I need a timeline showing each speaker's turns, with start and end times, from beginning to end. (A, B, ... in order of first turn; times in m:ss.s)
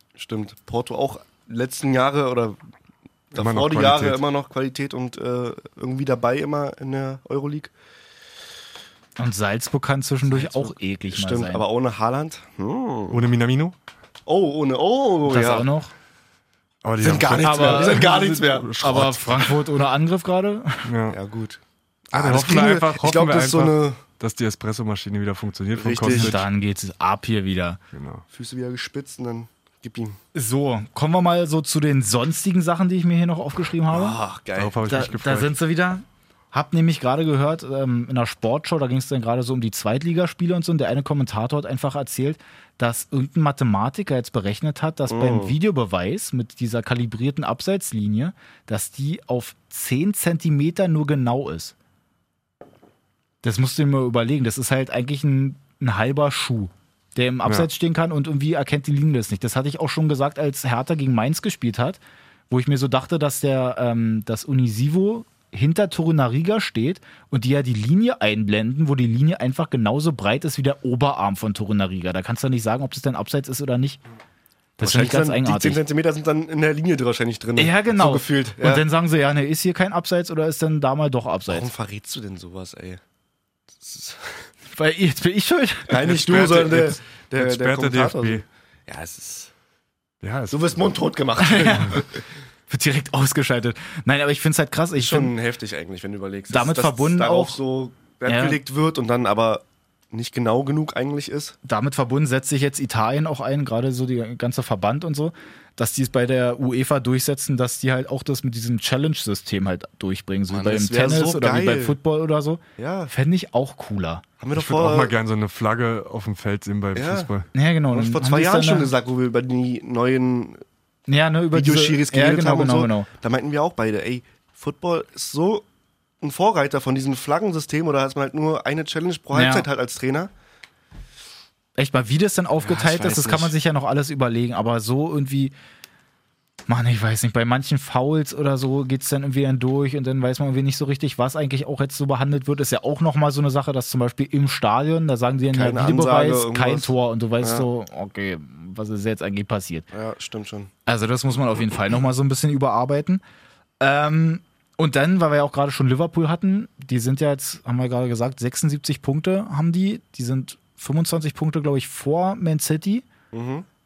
0:00.2-0:02.6 A
0:03.3-0:07.7 A
0:03.4-0:04.2 B
0:09.2-0:11.7 C
0:10.3-0:13.2 A
0:13.1-0:13.8 B
0:14.3-0:15.7 A
0:15.3-0:15.9 C
0:16.8-0:19.4 B
0:17.0-0:18.8 A
0:17.4-0:20.9 C
0:20.8-0:21.2 B
0:21.1-0:24.0 A
0:22.1-0:26.5 B
0:25.7-0:26.4 A
0:26.1-0:27.8 C
0:27.9-0:28.2 B
0:28.3-0:30.2 A
0:30.3-0:34.2 C
0:33.9-0:34.8 A
0:34.6-0:35.5 B
0:34.9-0:51.8 C
0:45.1-0:45.6 A
0:53.4-1:14.0 C
1:14.8-1:15.8 C
1:14.8-1:18.9 A
1:17.6-1:21.7 C
1:21.5-1:23.0 A
1:23.7-1:24.5 A
1:24.8-1:26.0 C
1:25.9-1:29.5 A
1:26.0-1:28.4 B
1:30.2-1:30.6 B
1:30.5-1:32.1 A
1:31.4-1:32.1 C
1:32.7-1:35.3 C
1:35.0-1:41.6 A
1:36.5-1:37.6 C
1:38.3-1:38.6 C
1:41.6-1:54.2 C
1:50.5-1:52.0 A
1:52.8-1:53.1 A
1:54.4-1:55.1 A
1:54.5-1:57.5 B
1:57.0-1:57.3 A
1:57.5-1:58.9 C
1:57.9-2:00.6 A
2:01.1-2:03.1 C
2:01.5-2:05.7 A
2:06.2-2:10.3 A
2:09.3-2:09.7 C
2:11.8-2:15.5 C
2:12.6-2:13.6 A
2:16.7-2:29.9 C
2:25.5-2:27.7 A
2:29.9-2:30.7 A
2:30.9-2:33.2 C
2:33.8-2:43.1 C
2:43.3-2:43.7 A